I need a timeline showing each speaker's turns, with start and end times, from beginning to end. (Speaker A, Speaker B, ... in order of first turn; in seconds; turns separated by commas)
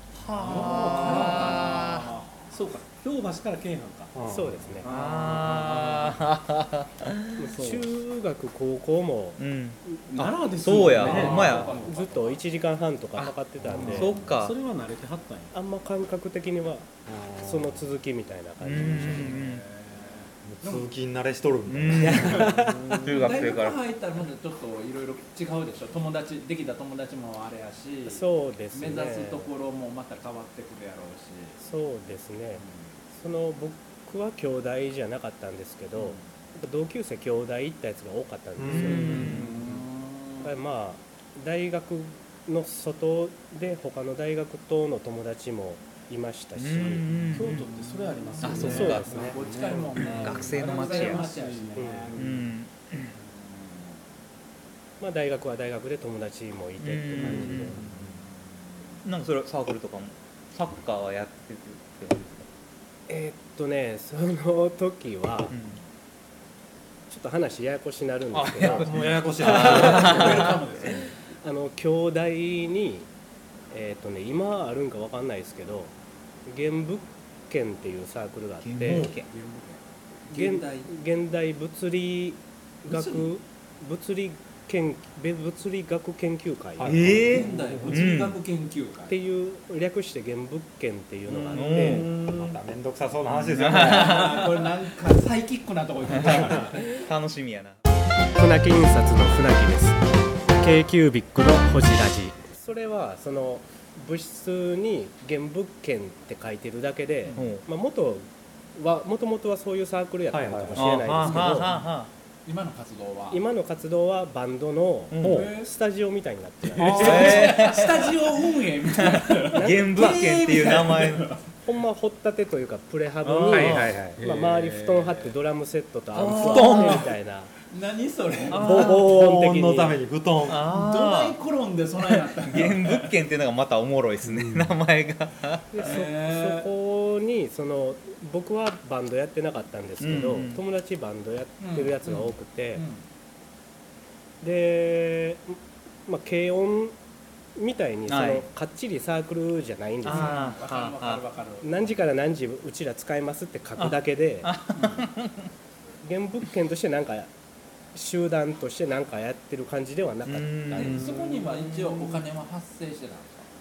Speaker A: 0.1-2.1, Speaker B: 0.4-2.0, Speaker C: 0.7-2.4, Speaker B: 2.5-4.3, Speaker D: 4.1-4.8, Speaker E: 4.2-4.9, Speaker B: 4.8-6.2, Speaker A: 4.8-7.4, Speaker E: 7.4-9.4, Speaker B: 7.5-7.8, Speaker A: 9.4-11.8, Speaker B: 10.1-12.0, Speaker C: 10.6-12.4, Speaker E: 11.8-14.1, Speaker B: 13.7-15.5, Speaker A: 13.9-14.6, Speaker C: 14.0-14.3, Speaker E: 15.5-16.9, Speaker D: 17.1-17.9, Speaker E: 17.4-19.3, Speaker A: 18.6-19.6, Speaker B: 18.7-19.6, Speaker C: 19.4-20.9, Speaker D: 20.4-22.6, Speaker A: 21.7-23.8, Speaker C: 22.0-22.3, Speaker E: 22.2-23.0, Speaker B: 22.5-23.6, Speaker C: 22.9-31.6, Speaker E: 28.1-29.5, Speaker E: 31.6-39.4, Speaker C: 35.9-36.2, Speaker D: 38.6-39.1, Speaker A: 38.6-39.5, Speaker B: 39.0-39.9, Speaker C: 39.1-40.5, Speaker E: 40.4-47.1, Speaker A: 46.5-47.7, Speaker B: 47.1-52.5, Speaker C: 47.4-52.2, Speaker A: 48.4-49.2, Speaker E: 48.6-49.4, Speaker A: 50.0-51.4, Speaker E: 51.8-52.1, Speaker A: 52.1-53.1, Speaker C: 53.2-54.0, Speaker E: 55.0-57.8, Speaker A: 56.8-57.9, Speaker B: 57.2-58.2, Speaker C: 57.9-59.0, Speaker A: 59.0-62.5, Speaker E: 63.1-65.5, Speaker A: 65.5-65.8, Speaker E: 67.1-68.9, Speaker A: 68.3-70.5, Speaker D: 68.5-70.6, Speaker C: 69.4-71.1, Speaker E: 69.5-70.2, Speaker E: 71.4-73.1, Speaker E: 73.7-75.9, Speaker E: 76.5-79.1, Speaker A: 78.6-79.3, Speaker C: 79.0-80.9, Speaker E: 80.3-87.0, Speaker C: 82.9-83.3, Speaker D: 86.8-87.3, Speaker A: 86.8-88.4, Speaker C: 87.1-89.1, Speaker B: 87.3-88.1, Speaker E: 89.1-92.0, Speaker B: 91.3-92.6, Speaker A: 91.5-92.1, Speaker D: 92.1-94.7, Speaker A: 93.4-94.5, Speaker C: 93.7-96.9, Speaker A: 96.1-97.8, Speaker E: 98.3-100.0, Speaker E: 100.6-111.7, Speaker A: 107.3-107.6, Speaker D: 110.3-110.9, Speaker A: 110.8-112.1, Speaker C: 111.6-111.9, Speaker C: 112.5-113.4, Speaker E: 113.3-117.4, Speaker A: 115.1-115.5, Speaker D: 115.2-115.5, Speaker C: 115.2-115.7, Speaker D: 116.8-117.4, Speaker A: 116.8-118.1, Speaker C: 116.9-121.4, Speaker A: 119.0-121.3, Speaker E: 119.5-120.1, Speaker E: 121.6-127.5, Speaker A: 123.3-124.0, Speaker D: 123.5-124.2, Speaker B: 123.5-125.3, Speaker A: 126.1-127.1, Speaker C: 127.7-128.9, Speaker A: 128.5-129.1, Speaker E: 128.5-130.0, Speaker D: 128.8-130.7, Speaker A: 130.4-131.4, Speaker C: 130.7-133.1, Speaker A: 132.1-135.9, Speaker B: 134.2-134.7, Speaker E: 135.7-142.8, Speaker C: 135.8-136.7, Speaker A: 140.0-140.6, Speaker C: 141.6-143.0, Speaker E: 144.4-146.9, Speaker E: 147.6-150.4, Speaker A: 148.1-148.4, Speaker A: 150.0-151.2, Speaker C: 150.1-151.9, Speaker E: 151.6-154.5, Speaker A: 153.8-155.4, Speaker E: 156.0-157.3, Speaker E: 157.9-161.1, Speaker A: 160.2-161.1, Speaker C: 160.7-163.5